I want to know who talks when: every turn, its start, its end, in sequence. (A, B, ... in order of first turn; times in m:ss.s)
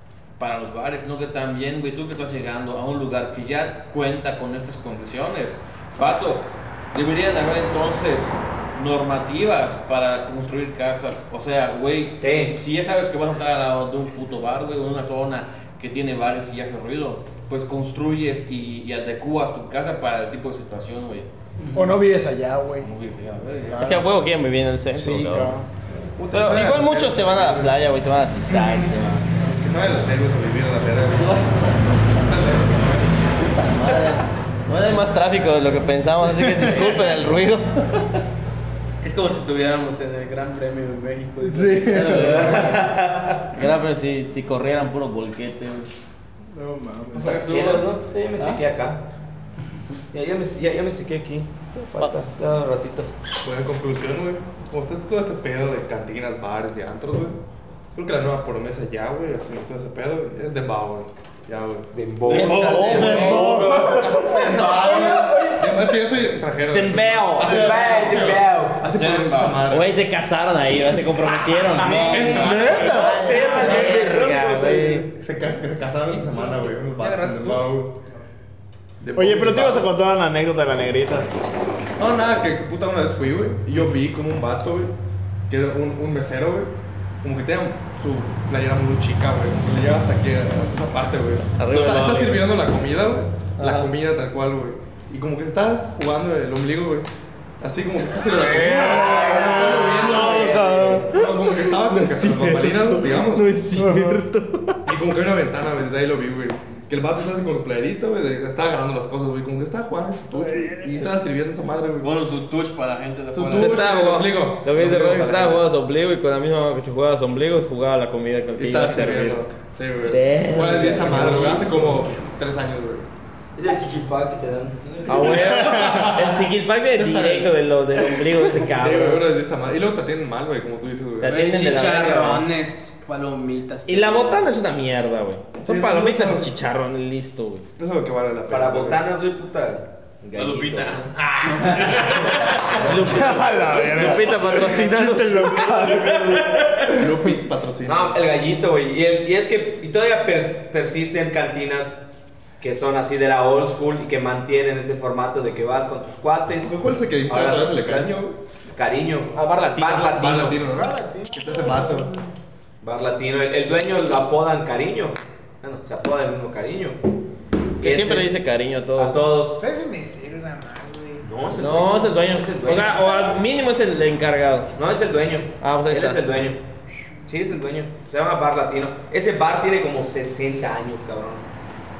0:00.4-0:21.9 A
0:12.2-0:12.6 B
0:21.7-0:22.9 C
0:22.8-0:24.0 A
0:23.7-0:24.1 C
0:23.8-0:25.6 D
0:24.9-0:25.7 C
0:26.2-0:27.8 E
0:26.3-0:29.3 D
0:29.4-0:31.5 E
0:31.2-0:31.5 D
0:32.1-0:33.1 E
0:33.4-0:38.0 D
0:39.0-0:43.0 F
0:41.4-0:42.3 C
0:41.9-0:42.9 D
0:42.0-0:42.3 G
0:42.5-0:43.5 B
0:43.5-0:45.9 D
0:46.5-0:47.4 C
0:47.1-0:49.0 B
0:47.2-0:47.9 A
0:50.1-0:53.1 B
0:53.4-0:57.4 E
0:57.9-1:09.9 E
1:01.9-1:05.5 B
1:02.3-1:03.7 D
1:02.3-1:04.4 C
1:02.7-1:03.1 A
1:04.2-1:05.5 F
1:06.7-1:08.4 D
1:07.4-1:08.8 B
1:08.8-1:09.7 A
1:09.7-1:15.0 D
1:11.4-1:13.9 E
1:11.7-1:15.0 B
1:12.1-1:13.2 C
1:13.2-1:14.2 H
1:15.1-1:18.0 E
1:16.1-1:17.7 F
1:19.0-1:19.9 E
1:19.2-1:21.4 C
1:22.0-1:24.9 E
1:25.5-1:26.7 E
1:27.2-1:37.1 E
1:31.6-1:32.5 D
1:33.6-1:33.9 D
1:37.6-1:43.6 E
1:38.2-1:44.8 C
1:38.9-1:41.1 B
1:40.1-1:40.8 D
1:44.8-1:52.1 E
1:50.3-1:51.1 C
1:52.0-1:54.0 A
1:53.3-1:55.6 E
1:53.5-2:01.9 D
1:58.6-2:03.0 E
2:00.7-2:01.2 H
2:03.6-2:05.2 H
2:05.0-2:09.2 D
2:05.1-2:11.5 E
2:05.3-2:06.1 C
2:11.2-2:12.5 D
2:11.2-2:14.5 F
2:13.9-2:17.6 D
2:15.6-2:16.5 E
2:17.8-2:19.1 E
2:18.5-2:21.1 B
2:20.4-2:22.8 A
2:21.2-2:26.7 D
2:21.7-2:23.2 B
2:22.9-2:23.1 E
2:23.0-2:27.3 C
2:25.6-2:26.3 B
2:26.8-2:28.2 E
2:27.8-2:32.0 B
2:32.6-2:36.8 B
2:36.6-2:38.4 E
2:37.3-2:38.2 B
2:38.7-2:40.6 B
2:39.4-2:40.4 D
2:40.1-2:42.2 E
2:40.6-2:42.3 G
2:42.8-2:47.0 B
2:47.8-2:48.3 B
2:47.8-2:49.2 D
2:49.0-2:49.7 B
2:49.6-2:51.3 G
2:51.2-2:53.4 B
2:51.5-2:54.7 D
2:54.8-2:56.6 B
2:55.6-2:56.2 D
2:57.2-3:01.4 B